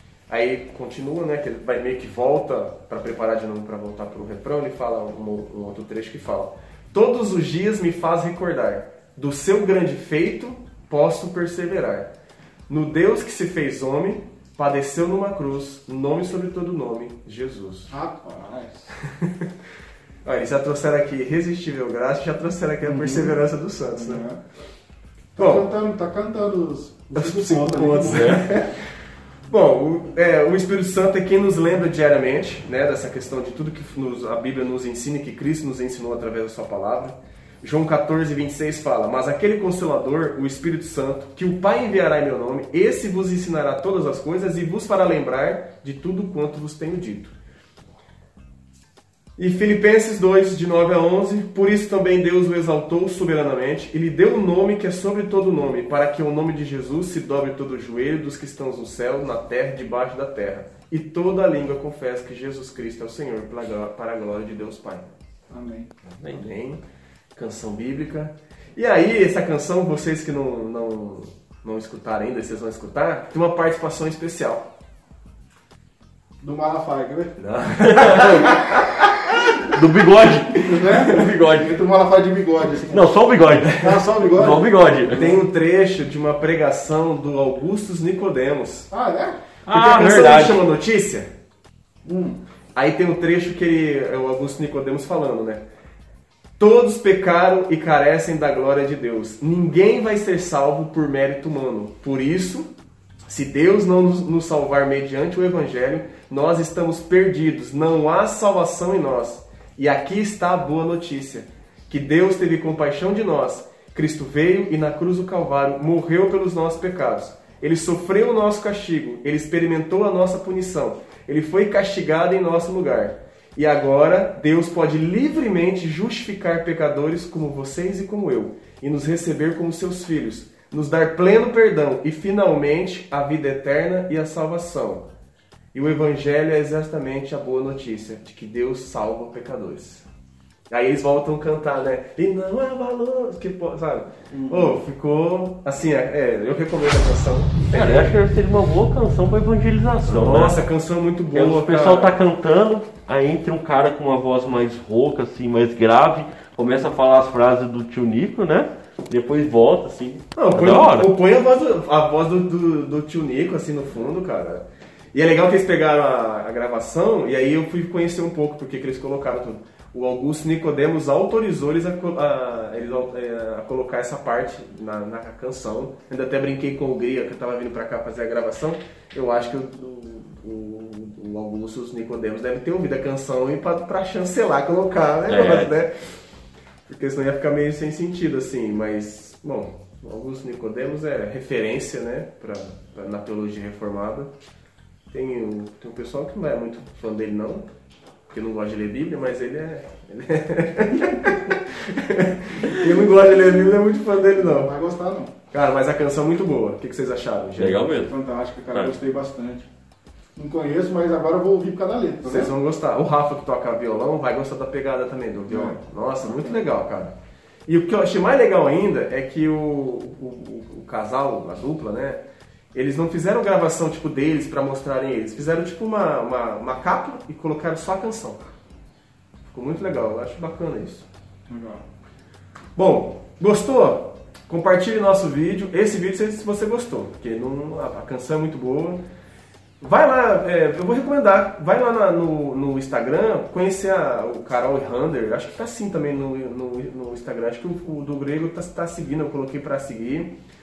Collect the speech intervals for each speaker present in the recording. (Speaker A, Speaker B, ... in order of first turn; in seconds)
Speaker A: 0.3-12.1, 12.7-17.9, 19.1-19.5, 20.2-24.2, 25.4-25.7, 27.1-28.9, 29.5-47.3, 49.4-65.1, 66.3-66.8, 67.3-74.7, 77.4-79.2, 85.1-88.9, 89.7-91.3, 92.7-95.6, 96.6-102.7, 103.3-135.1, 135.7-140.1, 140.7-148.2, 150.0-152.2, 160.3-185.9, 186.9-194.3, 195.1-197.7, 198.3-204.7, 205.5-207.9, 212.2-217.1, 217.7-222.2, 222.7-228.5, 229.5-231.0, 232.8-239.0, 239.8-250.3
Speaker B: 17.9-18.9, 22.8-23.4, 23.9-24.4, 25.4-28.4, 65.5-65.9, 76.4-77.4, 80.5-85.4, 88.9-89.4, 92.0-92.4, 144.3-144.8, 201.0-201.3, 204.3-205.3, 207.9-209.7, 210.3-212.5, 215.5-216.6, 231.5-231.8
Speaker C: 28.0-28.4, 66.2-66.4, 77.8-78.5, 79.6-81.8, 82.9-85.3, 89.7-90.6, 147.6-150.6, 151.3-161.1, 185.3-185.7, 207.5-208.1